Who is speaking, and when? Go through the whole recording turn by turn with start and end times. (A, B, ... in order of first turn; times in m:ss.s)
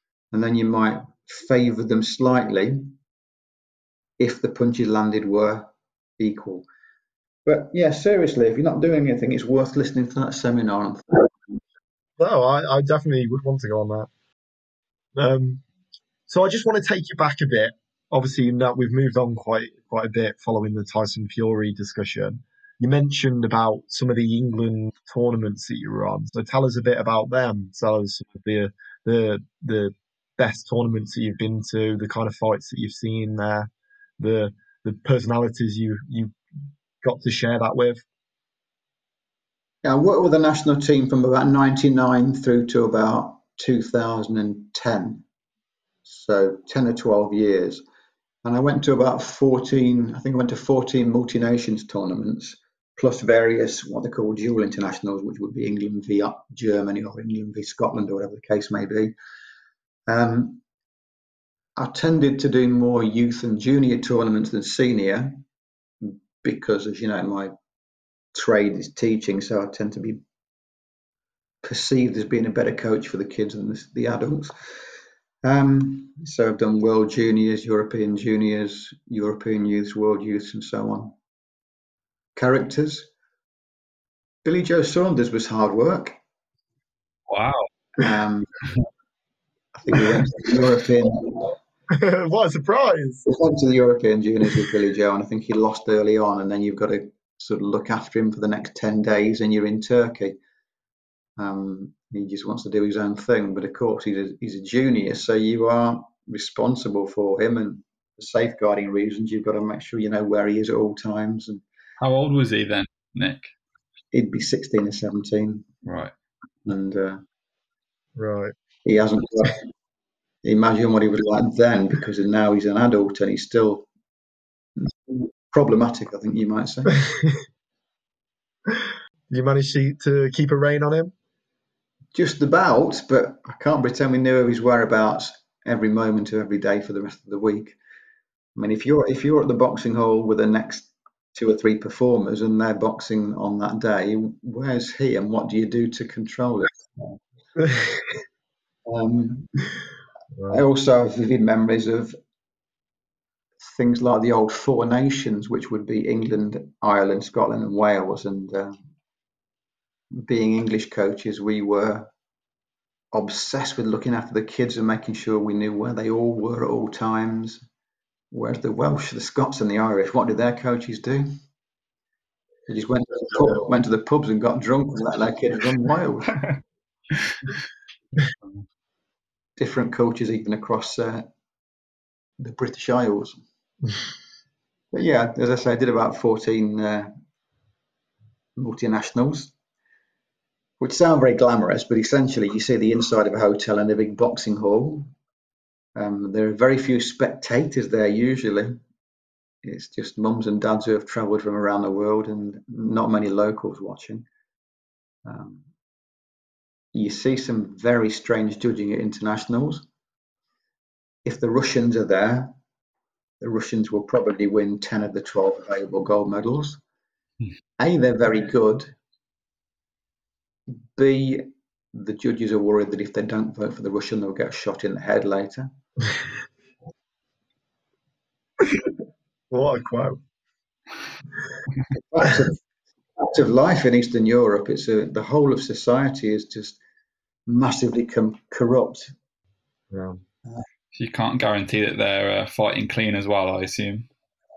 0:00.3-0:03.0 A
0:04.2-0:06.7 A
0:07.5-0:11.5 A
0:12.2-0:14.1 B
0:15.2-0:15.6 B
0:16.3-0:36.4 B
0:37.0-0:38.0 B
0:39.8-0:45.2 A
0:46.0-0:47.8 A
0:48.4-0:59.2 A
1:00.1-1:00.6 A
1:01.8-1:05.4 A
1:06.0-1:07.5 A
1:08.3-1:10.2 A
1:11.6-1:14.5 A
1:15.4-1:21.2 A
1:22.4-1:23.1 A
1:24.4-1:26.2 A
1:27.3-1:27.7 C
1:28.0-1:28.5 A
1:29.8-1:31.5 A
1:31.9-1:33.3 B
1:33.3-1:40.4 A
1:41.4-1:51.6 A
1:52.0-1:53.5 C
1:54.1-1:55.7 A
1:55.8-1:56.1 C
1:56.7-1:57.2 A
1:58.2-1:58.5 B
1:58.8-1:59.7 A
2:00.4-2:03.9 A
2:04.8-2:07.0 A
2:08.7-2:11.1 B
2:12.2-2:17.8 A
2:18.6-2:27.2 A
2:27.6-2:28.0 B
2:28.9-2:29.6 A
2:30.5-2:32.2 A
2:33.6-2:38.8 A
2:40.1-2:42.1 A
2:43.1-2:47.6 A
2:48.3-2:51.3 A
2:52.7-2:56.4 A
2:59.6-3:01.3 A
3:02.4-3:03.4 A
3:04.9-3:07.1 A
3:08.6-3:09.5 A
3:10.8-3:15.1 A
3:16.0-3:18.8 A
3:19.6-3:24.3 A
3:25.2-3:25.6 A
3:26.9-3:29.9 A
3:31.2-3:32.6 A
3:33.4-3:36.8 A
3:37.8-3:38.9 A
3:41.0-3:45.7 A
3:48.6-3:48.9 B
3:49.5-3:50.2 B
3:51.9-3:52.6 A
3:53.2-3:56.8 A
3:57.5-3:59.1 A
3:59.9-4:00.2 B
4:01.0-4:04.1 C